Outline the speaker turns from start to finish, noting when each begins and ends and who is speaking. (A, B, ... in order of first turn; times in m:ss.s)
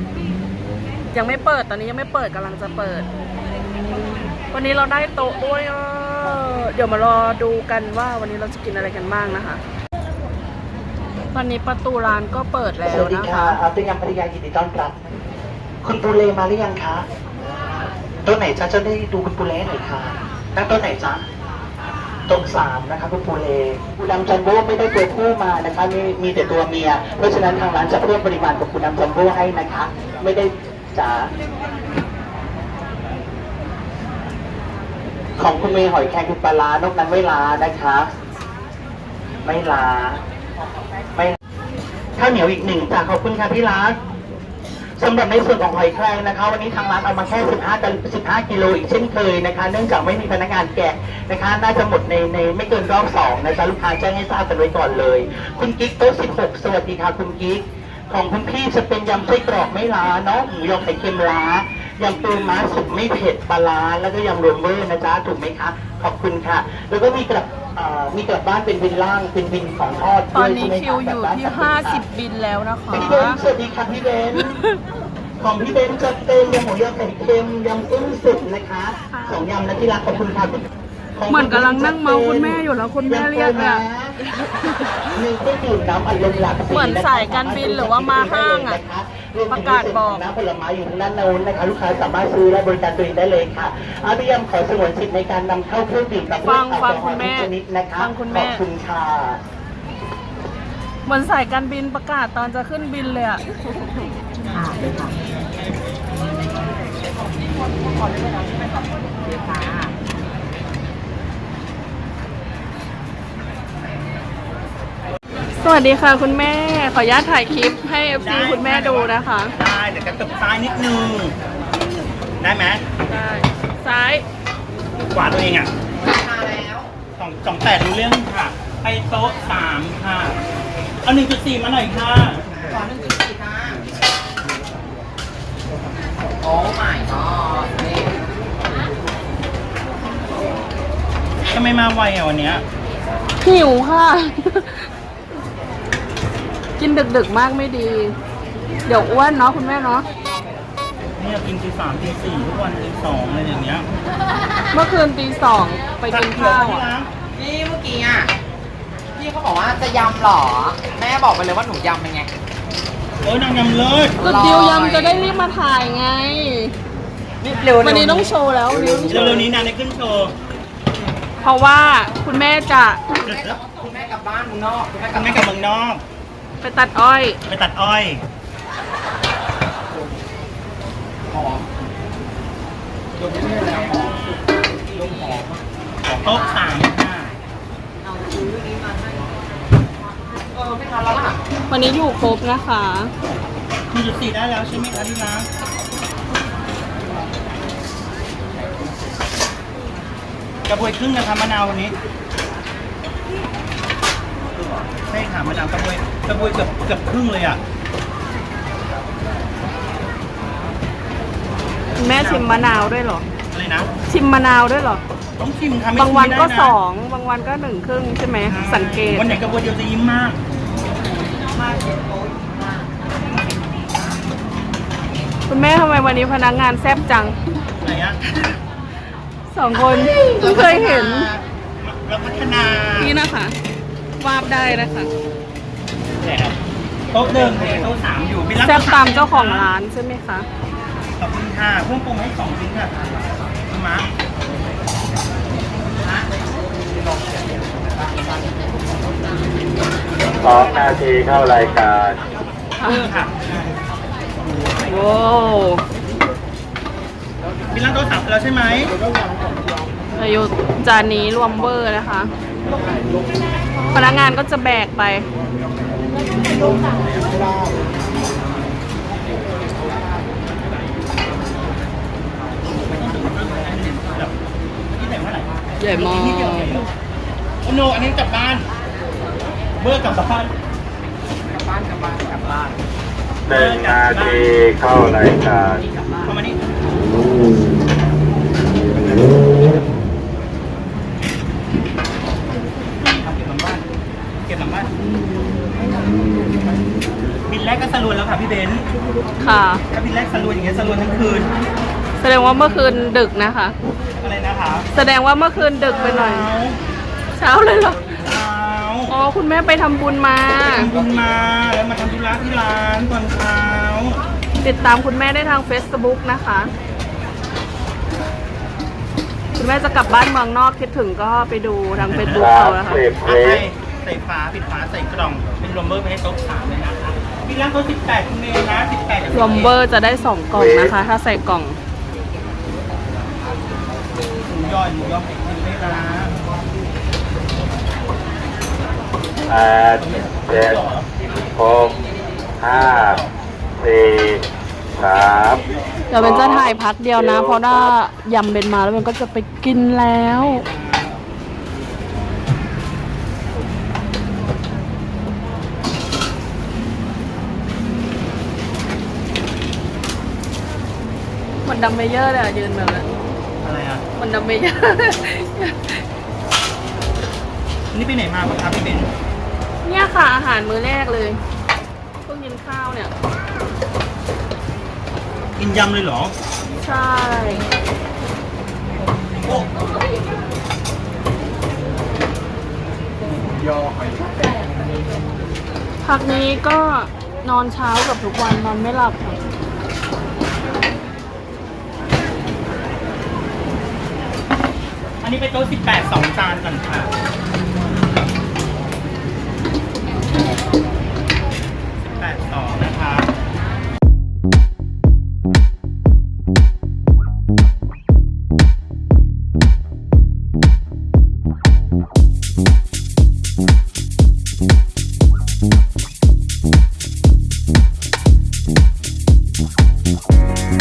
0:01.1-0:03.1 A
0:04.4-0:09.6 A
0:11.3-0:13.6 A
0:12.8-0:15.0 B
0:15.8-0:17.0 B
0:18.2-0:21.2 B
0:22.3-0:31.3 B
0:35.4-0:38.1 B
0:39.4-0:40.2 B
0:42.2-0:44.0 B
0:45.0-1:12.0 B
1:10.3-1:13.4 A
1:12.9-1:14.6 B
1:15.4-1:24.2 B
1:19.1-1:19.4 A
1:21.3-1:23.8 A
1:24.4-1:24.9 A
1:25.1-1:39.4 B
1:26.7-1:28.8 A
1:29.5-1:30.2 A
1:36.4-1:38.6 A
1:41.0-1:43.4 A
1:44.5-1:45.1 C
1:47.2-1:49.9 C
1:55.6-1:59.5 A
1:58.2-2:01.3 D
2:02.4-2:02.8 D
2:03.0-2:04.2 A
2:05.1-2:05.7 D
2:06.0-2:06.9 C
2:07.2-2:10.4 D
2:11.0-2:12.4 D
2:12.6-2:13.8 C
2:16.4-2:18.4 C
2:21.5-2:22.6 D
2:23.4-2:24.8 A
2:26.8-2:28.1 A
2:28.8-2:30.0 A
2:31.2-2:33.8 D
2:34.7-2:36.8 A
2:36.1-2:37.1 D
2:37.3-2:38.3 C
2:39.1-2:42.3 C
2:43.2-2:44.2 D
2:44.2-2:45.3 C
2:44.2-2:46.7 A
2:47.4-2:49.5 C
2:47.7-2:49.4 A
2:49.1-2:50.3 D
2:51.4-2:53.0 A
2:53.2-2:53.6 D
2:53.2-2:55.4 C
2:55.1-2:56.0 D
2:56.6-2:57.4 A
2:57.5-2:58.2 D
3:01.3-3:01.6 C
3:03.2-3:06.7 C
3:06.2-3:07.3 D
3:08.0-3:09.3 C
3:10.5-3:11.4 C
3:11.7-3:13.1 A
3:13.9-3:15.5 D
3:20.7-3:21.9 D
3:25.1-3:27.6 D
3:32.0-3:33.2 A
3:32.1-3:32.5 C
3:33.5-3:33.9 D
3:34.1-3:35.0 A
3:35.4-3:36.7 D
3:36.0-3:39.4 A
3:38.4-3:40.4 D
3:41.4-3:44.2 C
3:45.5-3:47.4 A
3:47.8-3:48.2 D
3:49.5-3:51.3 A
3:50.2-3:53.2 D
3:53.0-3:53.5 A
3:54.2-3:55.1 A
3:56.2-3:56.6 D
3:57.1-3:59.7 D
3:58.6-4:00.4 A
4:01.2-4:02.9 D
4:03.7-4:04.1 D
4:06.0-4:06.3 C
4:10.4-4:12.2 E
4:12.8-4:13.7 D
4:14.8-4:15.8 A
4:17.7-4:18.9 D
4:20.2-4:22.3 A
4:23.9-4:25.2 A
4:32.8-4:34.3 D
4:34.9-4:36.9 D
4:35.8-4:36.8 A
4:37.6-4:38.7 D
4:39.8-4:40.5 D
4:41.5-4:42.7 C
4:43.5-4:45.8 E
4:43.5-4:44.5 D
4:45.8-4:46.3 C
4:46.2-4:46.6 D
4:48.9-4:49.5 D
4:53.2-4:53.8 D
4:54.4-4:54.9 D
4:57.5-4:58.9 D
4:59.4-4:59.8 A
4:59.9-5:01.5 D
5:02.2-5:03.7 A
5:04.2-5:04.9 D
5:04.9-5:06.5 A
5:05.6-5:06.8 D
5:07.4-5:08.0 A
5:08.2-5:09.1 D
5:09.1-5:10.9 A
5:10.6-5:14.2 D
5:14.6-5:16.7 A
5:19.6-5:23.0 A
5:22.0-5:22.4 D
5:22.3-5:23.6 E
5:23.2-5:29.7 D
5:29.3-5:31.8 A
5:30.5-5:30.9 E
5:34.5-5:36.3 D
5:39.5-5:40.8 E
5:40.0-5:41.1 D
5:41.5-5:42.0 E
5:42.6-5:43.2 E
5:43.8-5:44.4 E
5:45.0-5:45.6 E
5:46.1-5:50.6 A
5:46.1-5:47.8 E
5:50.6-5:51.1 D
6:01.6-6:03.0 A
6:03.6-6:04.0 D
6:04.2-6:06.0 A
6:07.9-6:09.1 D
6:09.8-6:11.4 A
6:12.2-6:13.1 A
6:15.6-6:16.3 D
6:16.8-6:17.6 A
6:26.0-6:29.4 A
6:35.2-6:37.1 D
6:42.0-6:43.3 D